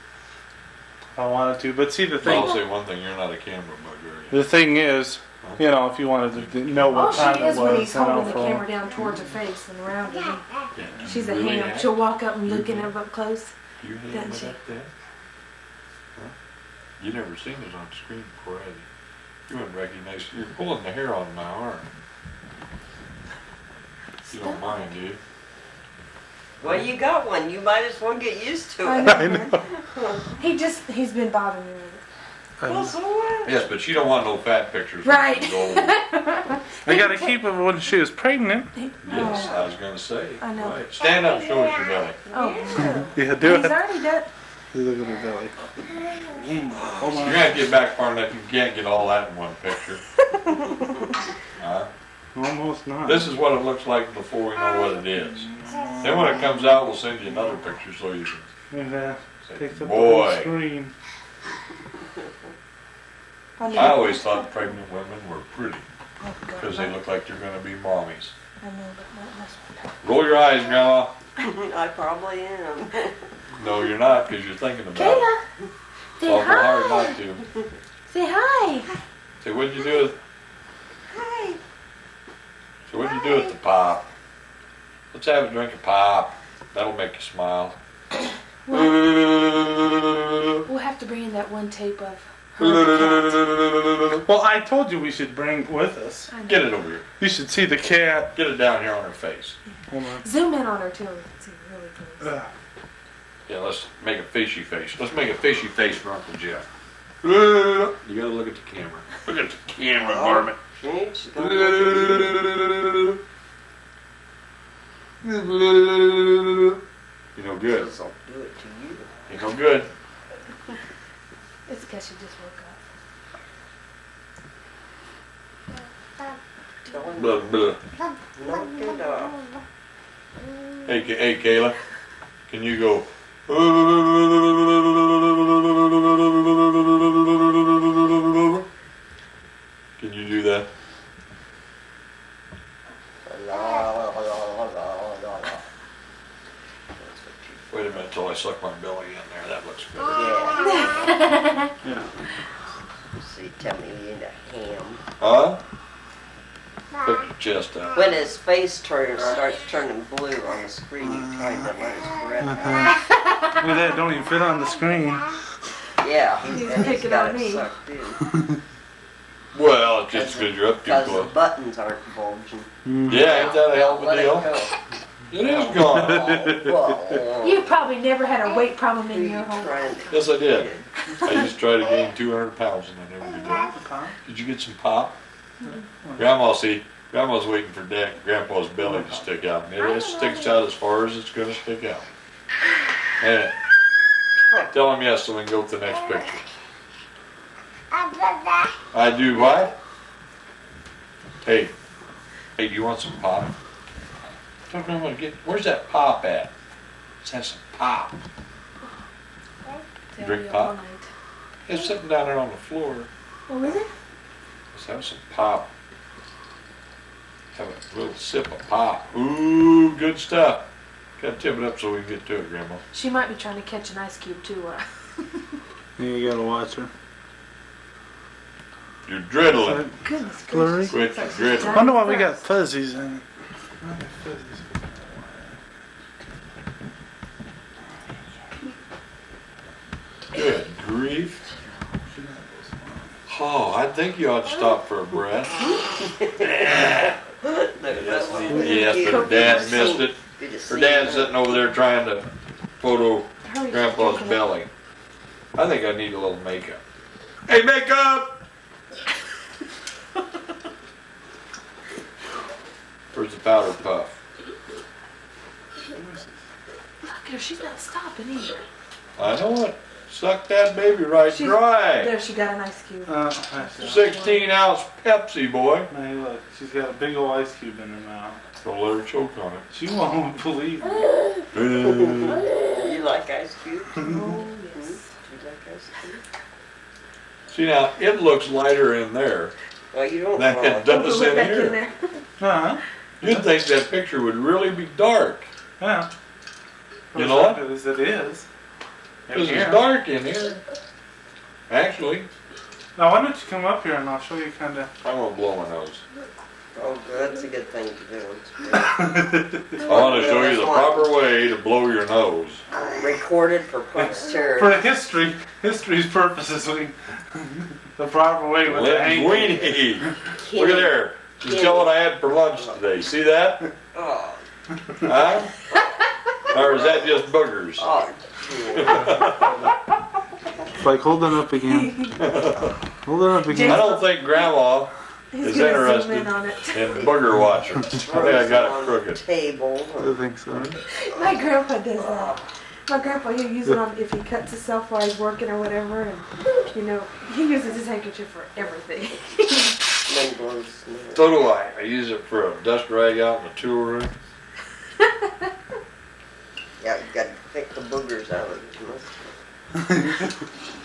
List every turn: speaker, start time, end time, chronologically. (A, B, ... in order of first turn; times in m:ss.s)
0:01.2-0:02.6 A
0:02.2-0:04.4 B
0:02.3-0:02.6 C
0:04.3-0:08.7 A
0:06.7-0:07.7 B
0:06.9-0:10.5 C
0:10.7-0:12.9 B
0:11.0-0:13.5 C
0:13.8-0:14.9 B
0:14.1-0:14.6 C
0:17.0-0:18.9 B
0:19.5-0:21.9 B
0:24.2-0:24.8 C
0:24.3-0:25.2 B
0:26.6-0:30.4 D
0:28.8-0:29.6 C
0:29.0-0:29.6 A
0:30.4-0:32.0 C
0:32.6-0:32.9 A
0:32.6-0:33.6 D
0:33.4-0:35.9 B
0:35.0-0:37.3 C
0:36.8-0:38.7 A
0:38.7-0:39.6 C
0:39.0-0:42.2 B
0:39.1-0:39.7 D
0:40.4-0:40.8 C
0:41.2-0:41.7 D
0:42.2-0:43.1 D
0:42.3-0:44.3 C
0:43.1-0:43.8 A
0:44.7-0:45.5 A
0:46.3-0:47.6 A
0:47.2-0:50.0 B
0:50.6-0:50.9 D
0:51.6-0:51.9 B
0:52.3-0:53.3 A
0:53.0-0:55.5 B
0:55.6-0:56.4 A
0:56.0-0:58.5 B
0:58.7-1:00.9 A
0:59.4-1:00.5 B
1:03.6-1:04.7 C
1:03.7-1:05.8 B
1:06.2-1:06.9 C
1:06.6-1:08.3 B
1:08.6-1:09.9 C
1:10.0-1:11.1 B
1:11.4-1:13.2 D
1:13.6-1:15.3 B
1:14.9-1:15.4 C
1:16.2-1:17.2 C
1:16.2-1:17.4 B
1:18.1-1:18.9 C
1:19.4-1:20.2 B
1:21.1-1:21.6 D
1:22.9-1:24.1 B
1:23.2-1:23.5 D
1:25.1-1:27.8 B
1:28.7-1:29.0 C
1:28.7-1:30.6 B
1:30.6-1:33.4 C
1:32.6-1:34.2 B
1:34.2-1:36.3 A
1:36.3-1:36.7 C
1:36.4-1:37.0 B
1:37.2-1:38.3 A
1:38.3-1:39.5 B
1:39.9-1:40.2 A
1:40.2-1:42.3 C
1:42.2-1:42.5 A
1:43.5-1:46.6 B
1:47.2-1:50.6 B
1:50.0-1:52.4 D
1:51.3-1:53.2 B
1:55.2-1:56.8 B
1:57.4-1:57.9 B
1:57.6-1:59.1 D
1:59.3-1:59.9 B
2:01.7-2:02.8 C
2:06.8-2:07.5 D
2:07.2-2:07.8 B
2:08.4-2:09.4 D
2:10.8-2:11.8 B
2:12.5-2:18.6 B
2:20.0-2:20.7 B
2:23.2-2:25.6 D
2:26.9-2:28.0 D
2:27.7-2:30.4 B
2:30.1-2:31.4 D
2:30.7-2:31.6 C
2:31.8-2:32.1 A
2:33.1-2:35.0 D
2:35.2-2:35.6 B
2:37.0-2:38.1 B
2:37.9-2:43.0 D
2:42.4-2:42.9 A
2:43.5-2:45.3 A
2:46.0-2:48.2 D
2:46.4-2:47.7 C
2:49.5-2:51.3 B
2:50.1-2:54.7 D
2:52.8-2:53.4 A
2:53.1-2:54.5 B
2:55.3-2:56.4 B
2:55.4-2:57.8 D
2:55.8-2:57.1 A
2:57.4-3:00.3 C
2:59.0-3:00.9 D
3:00.1-3:05.2 B
3:01.1-3:01.4 C
3:03.5-3:04.2 A
3:06.0-3:06.4 A
3:06.2-3:12.0 B
3:08.8-3:09.2 A
3:09.8-3:10.5 C
3:13.2-3:13.5 B
3:14.7-3:16.4 B
3:18.9-3:19.7 B
3:21.4-3:21.7 B
3:22.6-3:23.5 B
3:24.7-3:26.5 B
3:27.2-3:28.2 B
3:29.6-3:31.1 C
3:30.2-3:30.7 B
3:31.6-3:33.1 B
3:33.5-3:33.9 C
3:34.7-3:35.7 B
3:37.5-3:40.6 B
3:41.2-3:42.8 B
3:42.9-3:45.6 C
3:46.0-3:46.9 A
3:49.0-3:49.8 B
3:49.6-3:49.9 A
3:50.0-3:52.4 C
3:50.5-3:51.0 A
3:50.9-3:51.9 B
3:51.7-3:53.2 A
3:53.8-3:55.6 A
4:00.3-4:01.4 B
4:01.9-4:03.1 A
4:03.3-4:05.6 B
4:05.8-4:11.6 D
4:06.4-4:07.1 B
4:07.9-4:12.2 B
4:08.4-4:10.0 C
4:12.8-4:14.7 B
4:13.4-4:14.4 C
4:15.5-4:16.8 B
4:17.5-4:18.3 B
4:23.1-4:24.2 B
4:25.9-4:26.3 A
4:27.1-4:28.6 C
4:29.2-4:32.1 B
4:31.2-4:34.5 C
4:33.0-4:34.1 A
4:33.8-4:35.9 B
4:35.9-4:38.4 A
4:38.6-4:39.6 B
4:39.7-4:41.0 A
4:41.5-4:42.5 B
4:41.8-4:46.2 D
4:44.0-4:45.1 C
4:47.5-4:49.5 B
4:49.9-4:51.0 D
4:50.3-4:51.8 B
4:50.9-4:52.2 C
4:52.4-4:53.4 A
4:53.2-4:55.5 B
4:55.8-4:56.1 A
4:57.1-4:58.5 A
4:57.1-4:57.6 B
4:59.3-4:59.9 A
4:59.3-5:00.6 B
5:01.7-5:02.3 B
5:03.0-5:04.9 A
5:05.0-5:06.0 B
5:06.7-5:08.9 D
5:08.7-5:09.8 A
5:09.8-5:11.1 D
5:09.8-5:12.6 B
5:12.7-5:14.8 D
5:14.0-5:19.8 A
5:18.6-5:23.6 B
5:20.4-5:22.0 D
5:23.9-5:24.4 D
5:25.0-5:25.5 B
5:25.7-5:26.0 D
5:26.5-5:27.9 B
5:26.5-5:27.1 D
5:27.8-5:29.5 D
5:28.7-5:29.6 B
5:30.8-5:31.9 A
5:31.6-5:32.2 C
5:32.2-5:32.8 B
5:33.0-5:33.9 A
5:33.4-5:34.3 C
5:33.5-5:39.2 B
5:35.3-5:36.9 C
5:38.0-5:40.1 D
5:40.0-5:40.8 A
5:40.9-5:49.8 C
5:41.1-5:41.4 D
5:42.0-5:42.4 D
5:50.0-5:51.4 D
5:51.1-5:54.1 B
5:56.8-5:59.4 D
5:59.9-6:00.2 A